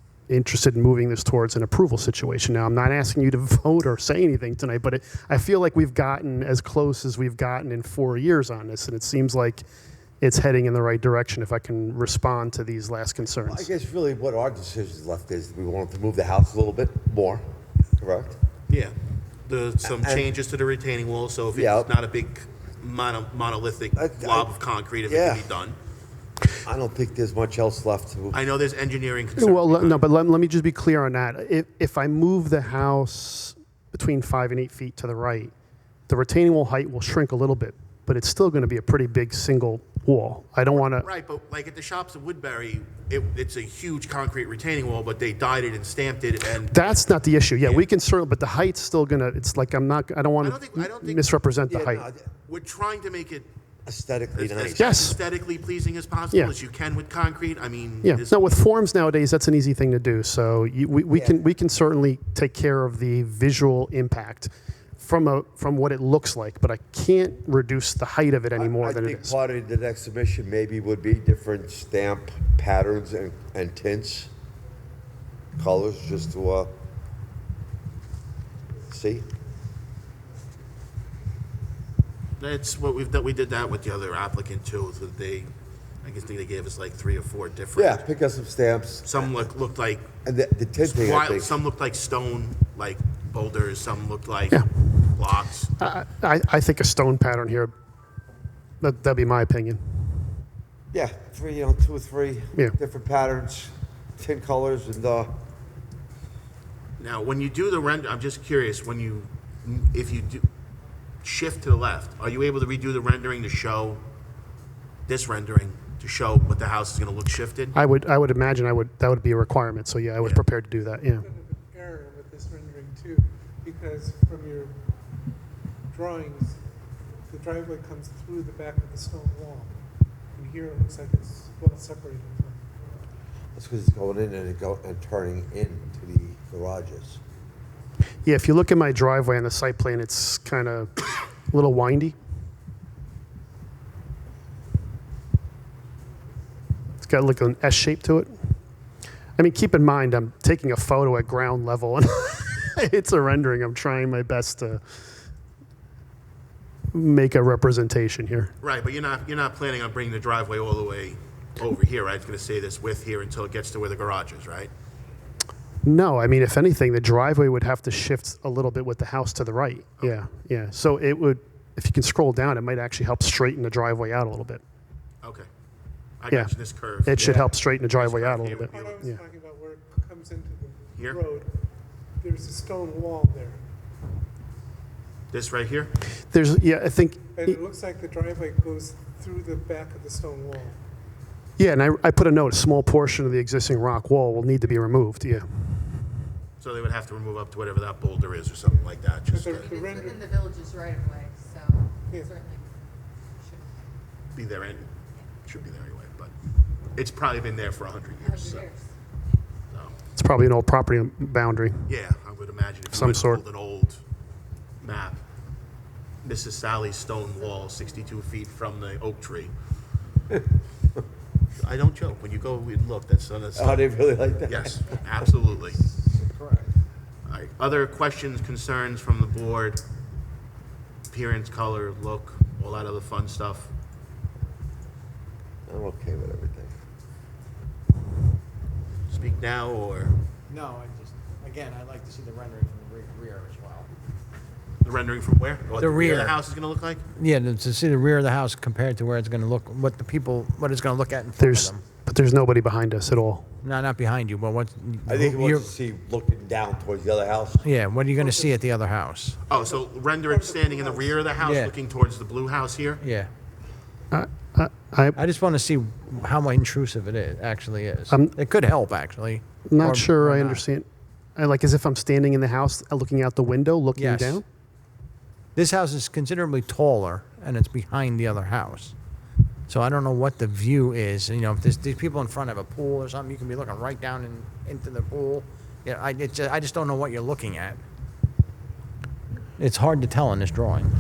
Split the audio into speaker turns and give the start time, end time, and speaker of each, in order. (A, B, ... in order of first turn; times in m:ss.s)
0:00.3-0:09.6 A
0:10.2-0:13.7 A
0:13.4-0:17.4 B
0:18.0-0:18.4 B
0:19.5-0:25.8 C
0:19.8-0:20.3 B
0:21.5-0:21.9 B
0:24.0-0:24.5 B
0:25.0-0:25.5 B
0:26.6-0:28.4 B
0:28.3-0:30.0 C
0:29.4-0:35.5 A
0:36.1-0:41.1 A
0:40.7-0:47.0 C
0:46.7-0:52.0 A
0:47.6-0:47.9 C
0:50.4-0:51.3 C
0:51.7-0:52.3 B
0:52.5-0:53.5 C
0:53.9-0:54.9 B
0:54.3-0:58.6 C
0:54.8-0:55.2 A
0:58.0-1:09.4 A
1:01.1-1:01.4 B
1:08.6-1:14.3 B
1:15.6-1:16.7 B
1:18.9-1:19.3 B
1:22.4-1:25.5 C
1:26.0-1:28.0 C
1:27.8-1:29.4 B
1:29.0-1:30.1 C
1:30.2-1:31.6 B
1:30.8-1:35.7 C
1:35.8-1:37.7 A
1:38.8-1:39.8 A
1:40.9-1:45.3 B
1:47.0-1:50.4 C
1:51.2-1:54.0 C
1:55.1-1:57.8 C
1:57.8-2:01.3 A
2:01.2-2:04.8 D
2:05.9-2:06.6 D
2:07.3-2:09.8 D
2:10.4-2:12.7 D
2:13.6-2:17.2 B
2:18.2-2:22.2 A
2:27.0-2:28.3 A
2:29.4-2:34.8 A
2:36.9-2:38.5 A
2:38.6-2:44.7 C
2:45.8-2:54.6 A
2:55.2-2:55.5 C
2:56.2-2:59.0 C
2:57.0-2:59.2 A
2:58.7-3:01.6 D
3:02.2-3:03.6 D
3:05.3-3:05.9 C
3:06.3-3:07.6 A
3:07.4-3:10.8 D
3:11.6-3:15.4 A
3:16.6-3:19.8 C
3:19.3-3:20.4 D
3:19.7-3:22.7 E
3:23.4-3:23.6 E
3:24.4-3:24.9 C
3:25.4-3:26.3 C
3:27.0-3:28.7 C
3:28.2-3:28.9 E
3:30.2-3:31.9 A
3:31.9-3:34.0 C
3:32.9-3:33.4 A
3:34.8-3:35.2 C
3:36.2-3:39.5 C
3:41.6-3:43.8 C
3:43.6-3:44.8 B
3:44.5-3:45.8 C
3:44.9-3:45.2 E
3:45.7-3:46.7 F
3:47.3-3:49.8 C
3:51.1-3:53.7 C
3:55.7-3:56.8 B
3:59.1-4:00.2 C
4:00.5-4:03.9 F
4:04.8-4:07.0 C
4:05.8-4:06.4 F
4:07.2-4:11.8 F
4:11.4-4:13.5 A
4:13.6-4:15.7 F
4:15.1-4:17.7 B
4:17.6-4:19.4 F
4:19.5-4:23.0 C
4:19.6-4:21.3 D
4:21.4-4:21.8 F
4:23.0-4:23.3 F
4:24.1-4:25.2 A
4:25.2-4:30.6 F
4:28.1-4:28.4 A
4:29.7-4:30.9 A
4:31.4-4:34.4 A
4:34.0-4:34.4 F
4:35.6-4:39.0 F
4:39.7-4:47.8 F
4:49.6-4:50.9 F